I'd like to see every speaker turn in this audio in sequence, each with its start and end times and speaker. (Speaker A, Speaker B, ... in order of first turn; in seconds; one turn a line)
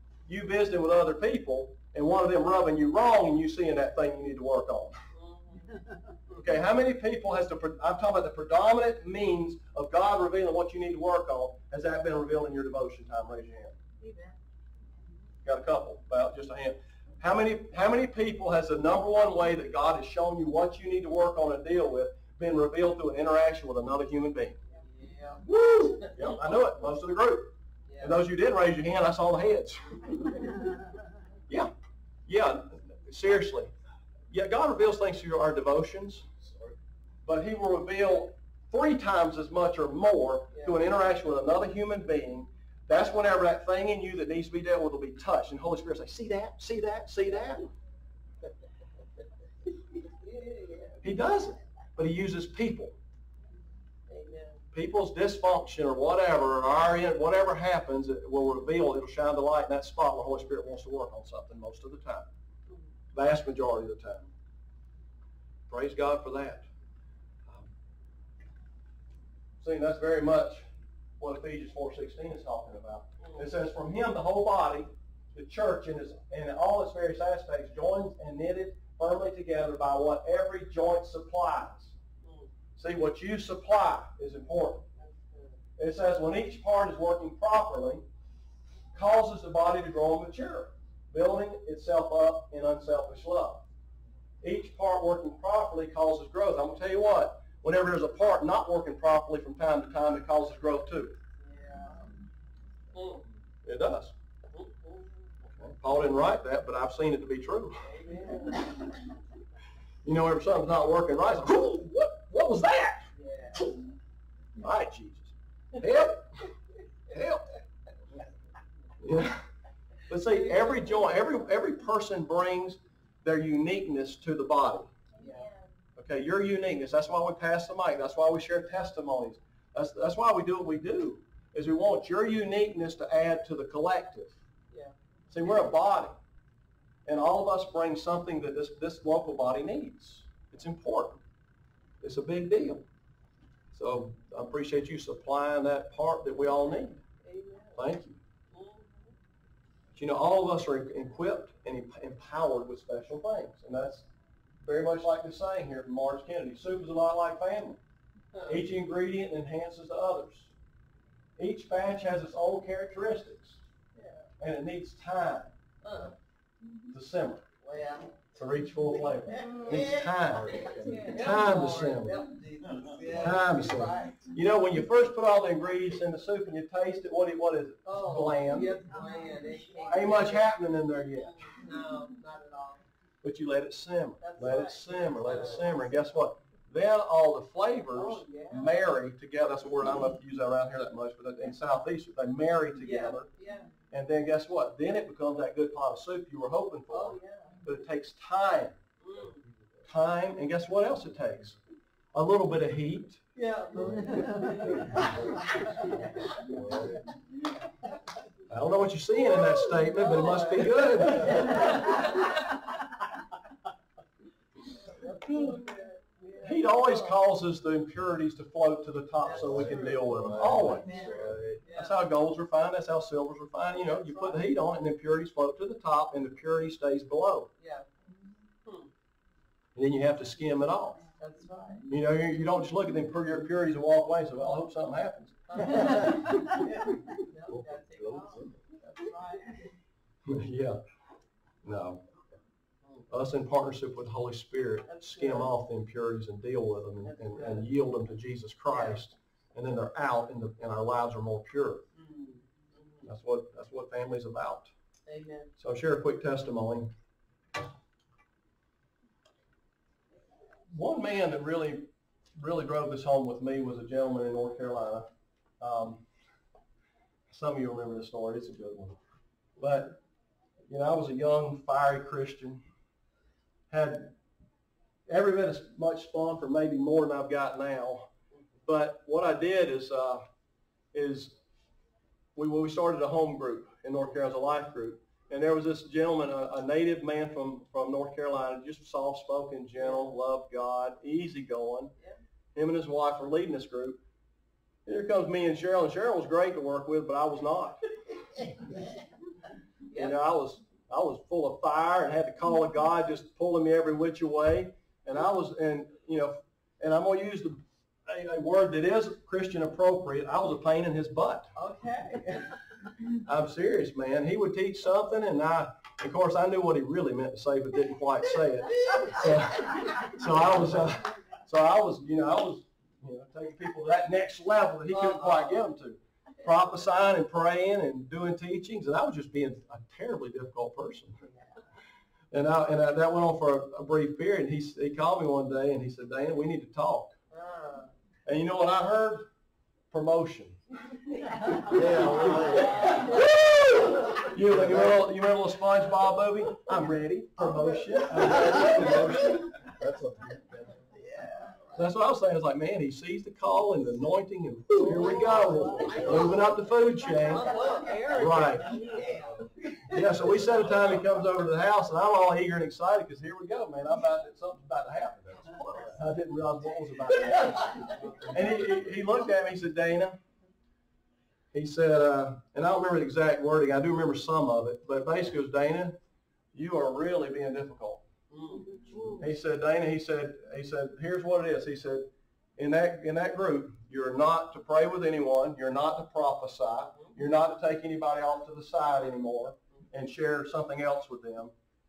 Speaker A: 0.2-5.0
Speaker B: 5.1-5.7
Speaker A: 6.3-13.8
Speaker A: 15.4-24.6
Speaker B: 24.7-25.5
Speaker A: 25.4-30.5
Speaker B: 27.9-28.2
Speaker A: 32.2-33.7
Speaker A: 34.3-36.2
Speaker A: 37.2-47.7
Speaker B: 40.5-40.8
Speaker B: 50.2-51.0
Speaker A: 51.0-53.0
Speaker B: 54.1-54.6
Speaker A: 54.7-62.3
Speaker A: 63.1-64.3
Speaker A: 65.7-66.6
Speaker A: 69.6-70.7
Speaker A: 71.2-81.9
Speaker B: 73.2-73.5
Speaker B: 82.2-82.5
Speaker A: 82.8-84.9
Speaker B: 85.0-85.6
Speaker A: 85.8-88.0
Speaker A: 88.9-93.6
Speaker A: 94.4-101.2
Speaker B: 101.4-102.1
Speaker B: 102.9-103.2
Speaker A: 103.6-104.1
Speaker B: 104.5-105.1
Speaker A: 105.4-107.8
Speaker B: 107.8-108.8
Speaker A: 110.0-113.0
Speaker B: 113.1-113.7
Speaker A: 114.6-116.5
Speaker A: 117.1-117.5
Speaker A: 119.0-119.4
Speaker A: 120.1-124.9
Speaker B: 120.5-120.8
Speaker B: 125.2-125.5
Speaker A: 126.0-134.3
Speaker A: 135.3-136.2
Speaker A: 137.1-141.2
Speaker A: 142.0-142.8
Speaker A: 143.7-147.0
Speaker B: 147.2-147.8
Speaker A: 147.8-148.2
Speaker B: 148.5-149.1
Speaker A: 149.9-154.1
Speaker A: 154.6-157.8
Speaker A: 158.4-160.5
Speaker A: 161.4-163.6
Speaker B: 163.9-164.3
Speaker A: 164.4-165.5
Speaker B: 165.8-166.1
Speaker A: 166.9-167.4
Speaker B: 167.6-168.2
Speaker A: 168.3-172.2
Speaker B: 169.3-169.9
Speaker B: 170.4-174.3
Speaker A: 173.1-178.8
Speaker B: 177.8-180.5
Speaker A: 179.9-181.5
Speaker B: 181.2-182.8
Speaker A: 183.2-193.3
Speaker B: 184.2-186.0
Speaker B: 187.9-188.9
Speaker B: 192.8-193.7
Speaker A: 193.9-198.8
Speaker B: 196.9-197.6
Speaker B: 199.0-199.4
Speaker A: 199.8-201.6
Speaker A: 202.1-203.2
Speaker B: 203.3-206.3
Speaker C: 206.4-207.0
Speaker A: 208.5-211.8
Speaker B: 209.2-212.3
Speaker B: 214.8-217.2
Speaker A: 215.3-215.6
Speaker A: 216.4-221.1
Speaker B: 219.2-222.0
Speaker C: 219.3-221.6
Speaker A: 221.7-227.5
Speaker B: 223.7-224.4
Speaker B: 227.6-227.9
Speaker A: 229.7-231.0
Speaker B: 231.2-231.8
Speaker A: 231.8-235.6
Speaker B: 235.5-239.7
Speaker C: 237.9-238.5
Speaker A: 240.2-240.8
Speaker A: 241.6-242.0
Speaker A: 243.1-251.8
Speaker B: 244.9-245.5
Speaker B: 247.0-247.7
Speaker B: 248.7-249.0
Speaker B: 251.9-253.0
Speaker A: 253.1-254.7
Speaker B: 255.1-255.5
Speaker A: 255.6-256.9
Speaker A: 260.7-265.1
Speaker A: 265.6-266.0
Speaker A: 267.3-269.0
Speaker A: 269.6-270.0
Speaker A: 270.7-272.6
Speaker A: 273.7-274.1
Speaker A: 275.1-278.1
Speaker A: 278.6-280.2
Speaker A: 280.9-281.4
Speaker A: 282.4-291.9
Speaker B: 289.8-290.1
Speaker A: 292.5-294.0
Speaker A: 294.9-297.8
Speaker B: 299.9-300.2
Speaker A: 299.9-311.5
Speaker B: 311.5-312.6
Speaker A: 313.2-331.2
Speaker B: 324.9-325.7
Speaker A: 332.3-337.1
Speaker B: 337.3-337.9
Speaker A: 338.2-339.3
Speaker A: 339.9-340.6
Speaker C: 341.6-343.0
Speaker A: 341.7-349.2
Speaker B: 348.2-348.9
Speaker C: 348.3-350.8
Speaker B: 351.0-351.6
Speaker A: 351.8-358.8
Speaker B: 354.9-356.5
Speaker B: 357.1-359.8
Speaker A: 359.9-370.2
Speaker A: 371.5-376.0
Speaker A: 376.5-378.0
Speaker B: 378.3-379.2
Speaker A: 379.2-391.5